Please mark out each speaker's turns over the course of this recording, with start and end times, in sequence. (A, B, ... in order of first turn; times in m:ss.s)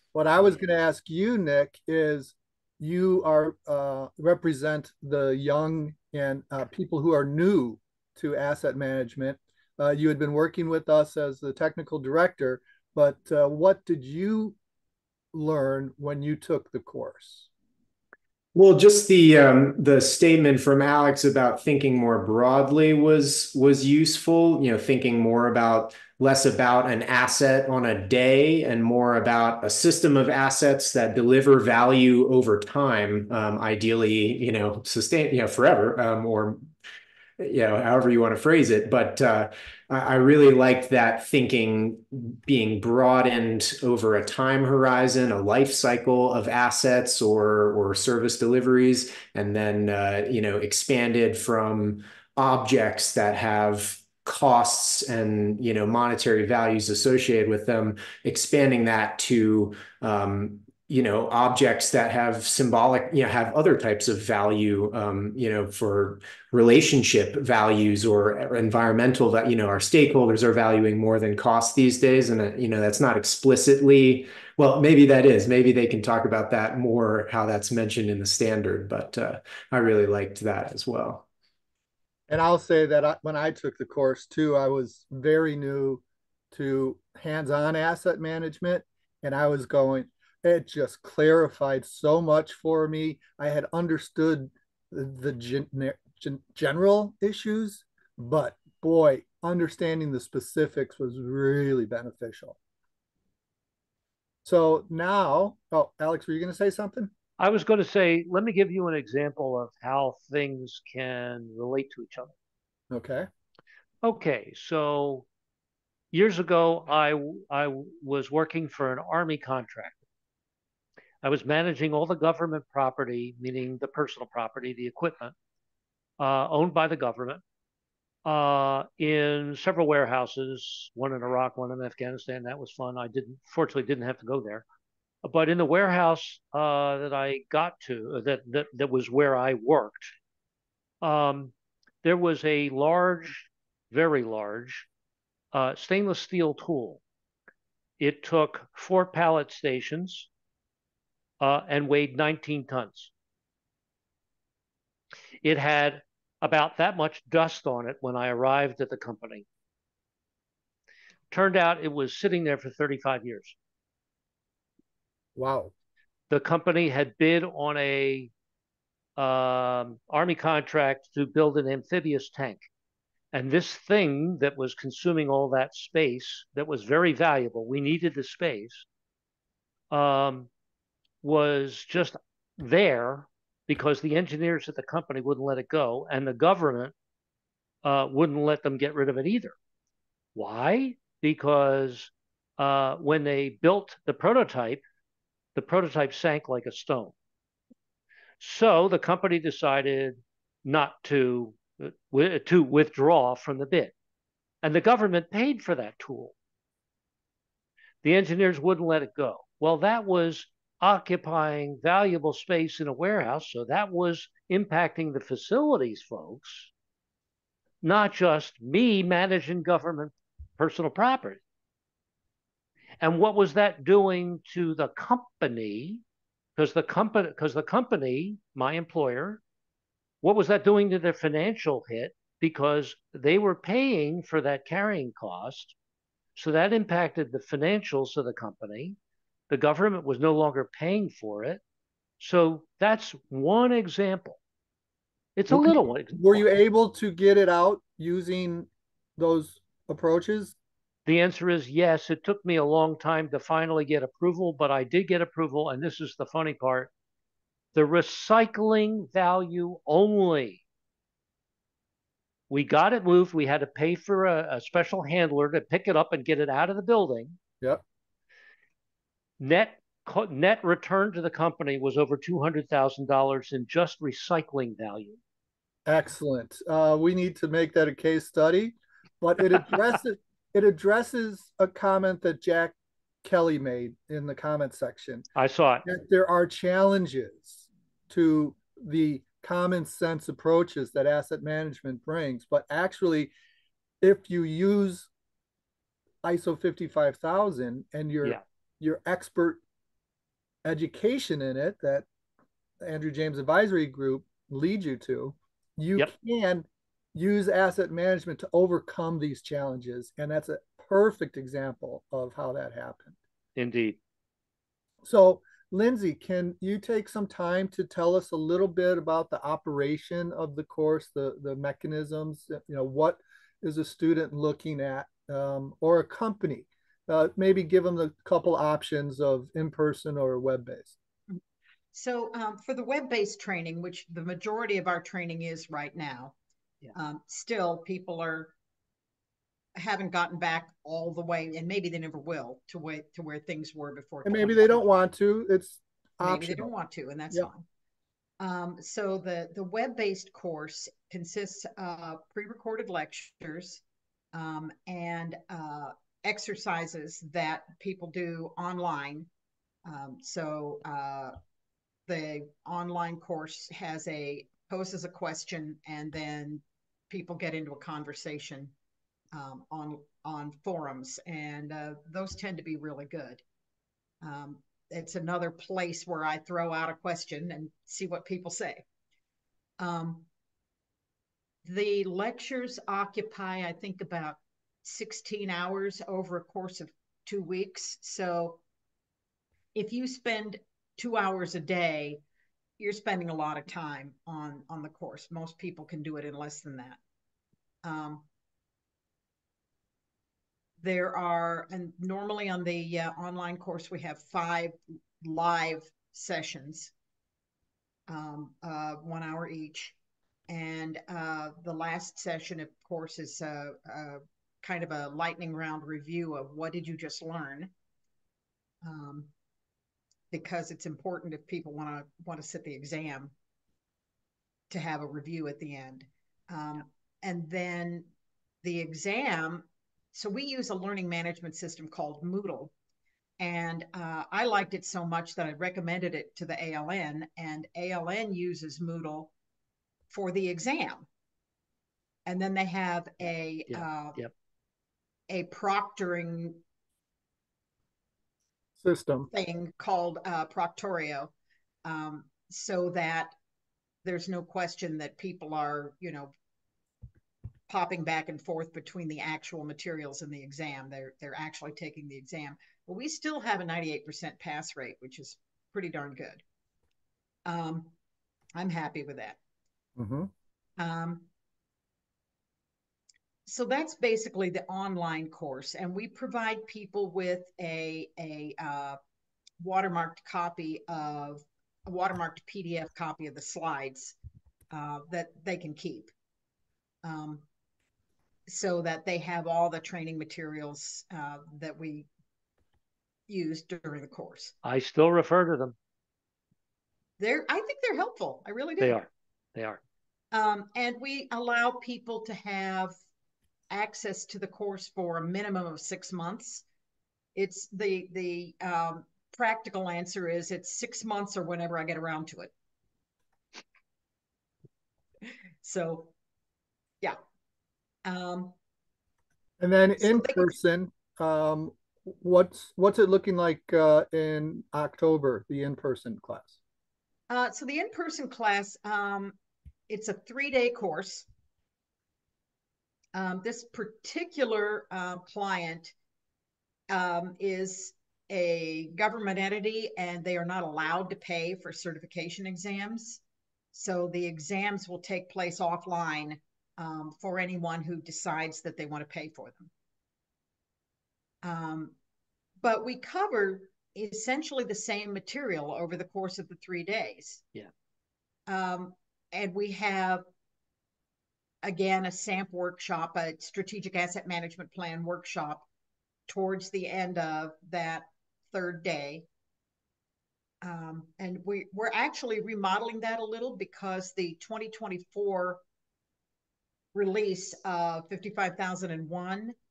0:00.1-0:14.6 A
0:15.3-0:17.5 A
0:18.5-0:36.7 B
0:37.4-1:21.2 B
1:22.3-1:42.6 A
1:44.4-1:47.1 A
1:47.4-1:52.3 C
1:52.9-1:53.3 A
1:54.0-1:55.3 C
1:56.1-2:00.0 C
2:01.2-2:05.3 C
2:06.2-2:07.4 C
2:08.2-2:14.6 C
2:15.2-2:20.1 C
2:21.0-2:21.5 C
2:22.0-2:24.9 C
2:25.5-2:27.0 C
2:28.0-2:30.3 C
2:31.4-2:33.1 C
2:35.4-2:39.4 C
2:41.3-2:43.6 C
2:45.4-2:45.7 A
2:46.3-2:48.3 C
2:49.2-2:52.6 C
2:53.3-2:58.8 C
2:59.9-3:00.5 C
3:01.2-3:06.9 C
3:07.8-3:09.5 C
3:10.3-3:14.8 C
3:15.5-3:17.1 C
3:18.4-3:23.9 C
3:24.6-3:26.3 C
3:28.0-3:36.7 C
3:37.8-3:41.4 C
3:43.0-3:46.0 C
3:46.6-3:49.4 C
3:50.2-3:55.7 C
3:56.4-3:59.0 C
3:59.5-4:01.6 C
4:02.2-4:04.4 C
4:05.4-4:06.4 C
4:05.5-4:10.5 A
4:11.0-4:16.9 C
4:17.7-4:20.6 C
4:22.5-4:27.4 C
4:29.4-4:35.2 C
4:35.8-4:45.3 A
4:45.4-4:45.8 C
4:45.8-4:53.3 A
4:54.0-4:55.1 A
4:56.2-4:59.6 A
5:00.6-5:02.1 A
5:02.8-5:13.2 A
5:13.6-5:14.0 C
5:15.0-5:30.9 A
5:31.9-5:36.4 D
5:36.9-5:38.5 D
5:39.8-5:44.8 D
5:44.2-5:46.7 A
5:46.2-5:47.6 D
5:48.4-5:53.8 D
5:54.3-5:59.3 D
5:59.8-6:01.3 D
6:02.1-6:08.7 D
6:09.3-6:13.4 D
6:14.2-6:18.8 D
6:19.8-6:20.3 D
6:21.6-6:28.6 D
6:29.7-6:32.2 D
6:32.8-6:37.0 D
6:37.8-6:38.2 D
6:40.8-6:46.9 D
6:48.1-6:50.0 D
6:50.5-6:57.7 D
6:58.8-6:59.3 D
7:00.3-7:03.3 D
7:04.7-7:08.1 D
7:08.6-7:12.7 D
7:13.4-7:19.3 D
7:20.1-7:21.1 D
7:22.2-7:24.2 D
7:23.7-7:24.3 C
7:25.3-7:26.6 D
7:28.8-7:29.3 A
7:29.3-7:31.3 D
7:31.8-7:33.3 D
7:34.0-7:36.3 D
7:37.7-7:46.4 D
7:47.4-7:47.9 D
7:48.5-7:49.4 D
7:50.0-7:50.3 A
7:50.8-7:51.3 D
7:53.4-7:59.0 D
7:59.6-8:04.2 D
8:04.7-8:06.1 D
8:07.0-8:07.4 D
8:08.5-8:12.1 D
8:13.3-8:14.5 D
8:14.6-8:15.7 C
8:17.2-8:19.0 D
8:18.8-8:19.8 C
8:20.3-8:22.9 D
8:23.7-8:26.6 D
8:27.3-8:32.5 D
8:35.6-8:36.1 D
8:38.0-8:38.5 D
8:39.6-8:46.6 A
8:40.0-8:40.5 D
8:47.3-8:49.3 D
8:49.9-8:51.3 D
8:53.1-8:55.9 D
8:56.9-9:03.2 D
9:03.7-9:09.7 D
9:11.4-9:11.9 D
9:12.6-9:17.4 D
9:18.5-9:20.2 D
9:21.6-9:25.6 D
9:26.3-9:29.2 D
9:30.6-9:35.6 D
9:36.9-9:39.5 D